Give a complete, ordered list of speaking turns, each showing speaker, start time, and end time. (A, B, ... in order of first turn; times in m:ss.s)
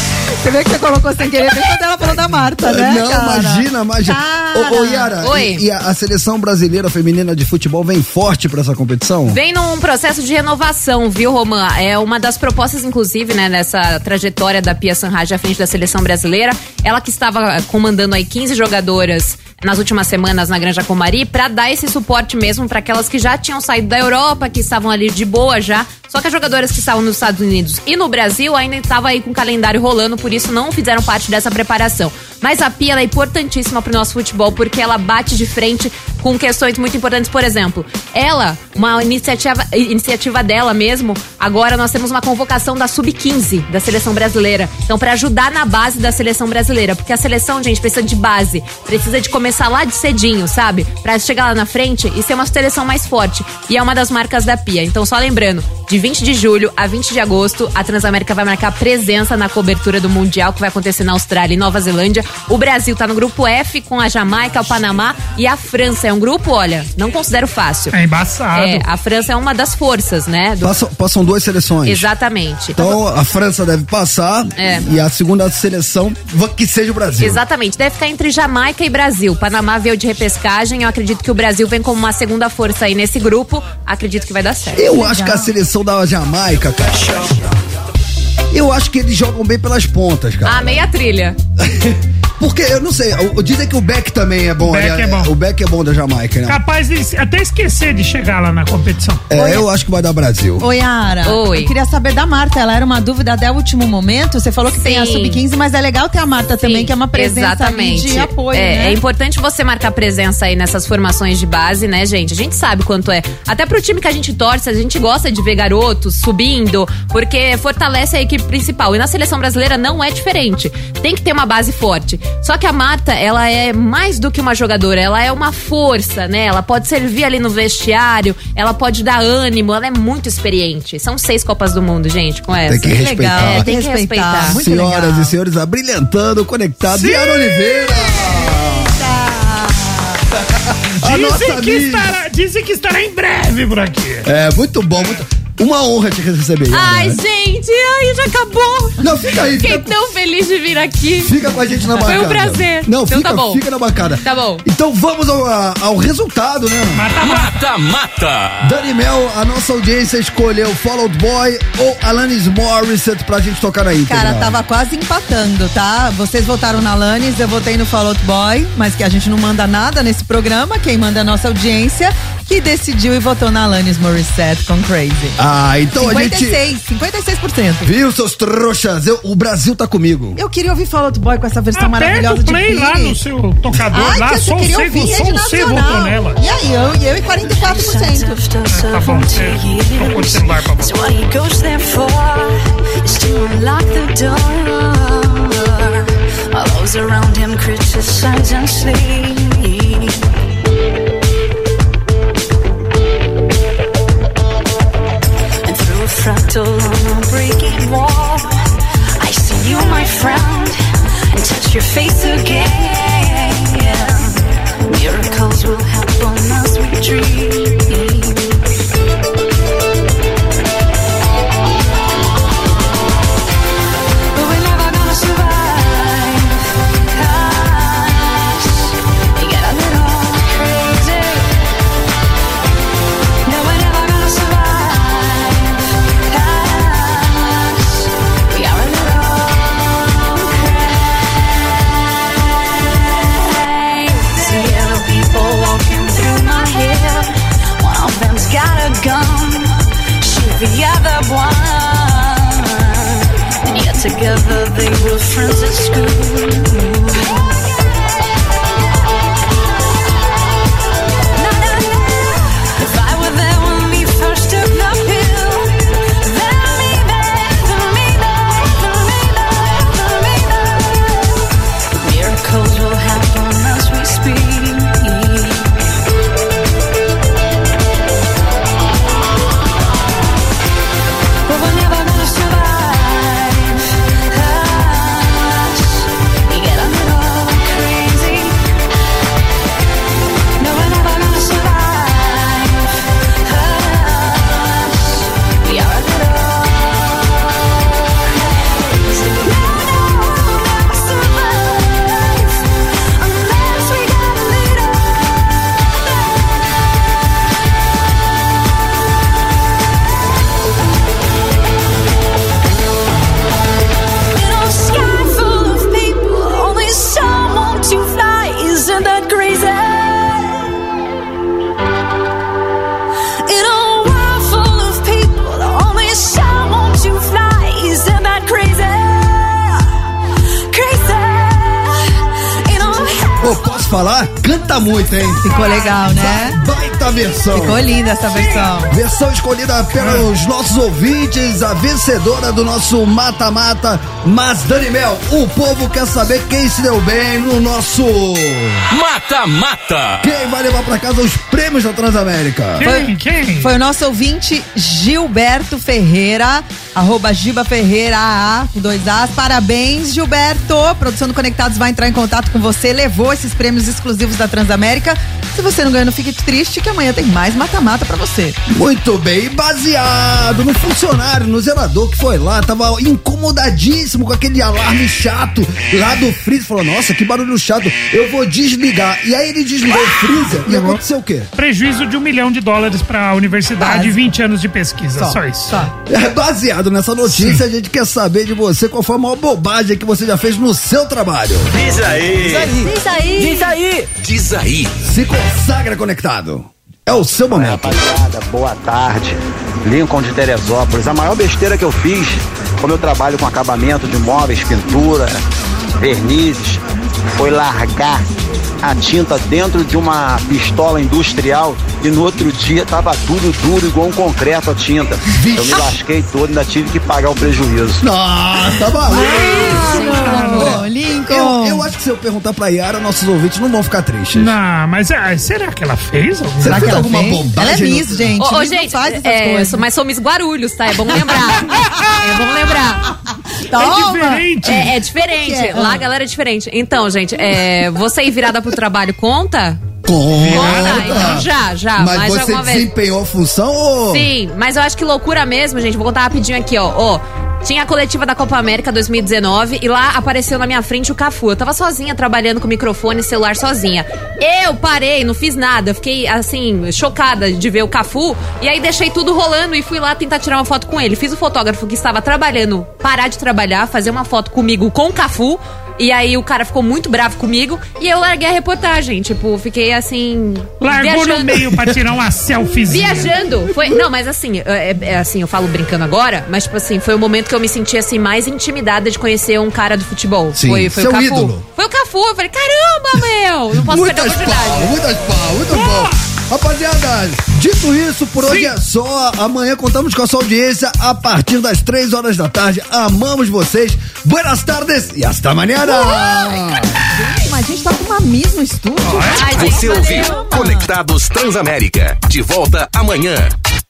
0:00.4-0:05.1 A
0:02.6-0:09.4 B
0:05.2-0:05.6 C
0:09.3-1:07.9 C
1:07.9-1:08.9 D
1:08.5-1:10.7 C
1:10.6-1:12.1 B
1:11.8-1:13.0 C
1:12.7-1:17.4 B
1:14.6-1:14.8 C
1:17.2-1:24.8 C
1:24.8-1:25.5 A
1:24.8-1:27.6 B
1:28.5-1:30.9 B
1:30.4-1:31.4 C
1:31.6-1:36.6 B
1:34.6-1:35.3 D
1:36.4-1:39.2 D
1:39.3-1:40.7 B
1:39.3-1:39.6 A
1:40.6-1:49.0 A
1:41.2-1:41.7 C
1:44.7-1:45.4 C
1:46.6-2:14.6 C
2:12.7-2:13.7 B
2:12.9-2:15.4 A
2:14.4-2:19.0 B
2:16.9-2:17.8 D
2:19.0-2:20.0 A
2:20.5-2:22.1 B
2:21.0-2:24.3 D
2:24.2-2:27.2 B
2:26.7-2:29.0 C
2:29.0-2:29.9 B
2:29.6-2:31.4 C
2:31.2-2:37.0 B
2:32.0-2:33.6 C
2:34.2-2:34.6 C
2:36.9-2:37.5 D
2:37.2-2:38.7 E
2:38.6-2:44.6 B
2:44.1-2:55.4 A
2:55.4-2:56.6 B
2:56.0-2:57.9 A
2:57.8-3:00.4 B
3:00.4-3:03.2 A
3:01.7-3:06.4 D
3:03.9-3:08.4 A
3:07.4-3:20.2 F
3:08.7-3:11.0 D
3:25.6-3:28.7 F
3:29.2-3:38.6 F
3:44.3-3:51.5 F
3:53.4-4:01.8 F
4:02.7-4:17.6 F
4:21.4-4:31.4 F
4:32.0-4:35.7 F
4:41.4-4:48.6 F
4:50.6-4:57.6 F
4:58.2-5:06.7 F
5:14.3-5:20.7 F
5:23.4-5:30.0 F
5:30.7-5:32.0 F
5:32.6-5:33.6 F
5:33.4-5:37.9 B
5:35.4-5:36.6 A
5:37.5-5:38.9 A
5:38.9-5:48.9 B
5:40.0-5:40.2 D
5:48.9-5:50.3 E
5:50.2-5:52.9 B
5:52.8-5:53.7 D
5:52.8-6:08.6 A
6:08.7-6:21.5 B
6:20.6-6:21.0 D
6:21.6-6:25.7 D
6:23.8-6:24.2 A
6:25.2-6:25.9 A
6:26.1-6:31.7 B
6:27.3-6:27.6 D
6:31.7-6:34.9 E
6:32.5-6:33.7 A
6:35.0-6:37.9 B
6:37.5-6:45.4 G
6:46.0-6:46.8 G
6:47.4-6:58.0 G
6:55.4-6:55.9 B
6:58.0-7:04.5 B
6:59.1-7:01.9 A
6:59.2-7:00.8 D
6:59.4-7:00.6 C
7:04.3-7:07.0 D
7:06.6-7:08.3 B
7:06.6-7:09.8 A
7:08.4-7:13.1 C
7:11.8-7:12.1 D
7:13.6-7:16.0 A
7:13.7-7:14.9 D
7:14.6-7:19.8 C
7:20.0-7:21.5 B
7:20.4-7:21.4 D
7:20.5-7:22.9 C
7:22.0-7:24.3 B
7:24.1-7:51.7 C
7:50.8-7:53.3 D
7:52.9-8:04.9 C
7:53.7-7:54.0 B
8:00.5-8:01.6 B
8:03.7-8:17.0 B
8:05.7-8:06.2 D
8:15.9-8:16.4 A
8:17.1-8:20.9 A
8:19.0-8:19.5 D
8:19.3-8:23.5 E
8:19.3-8:20.4 C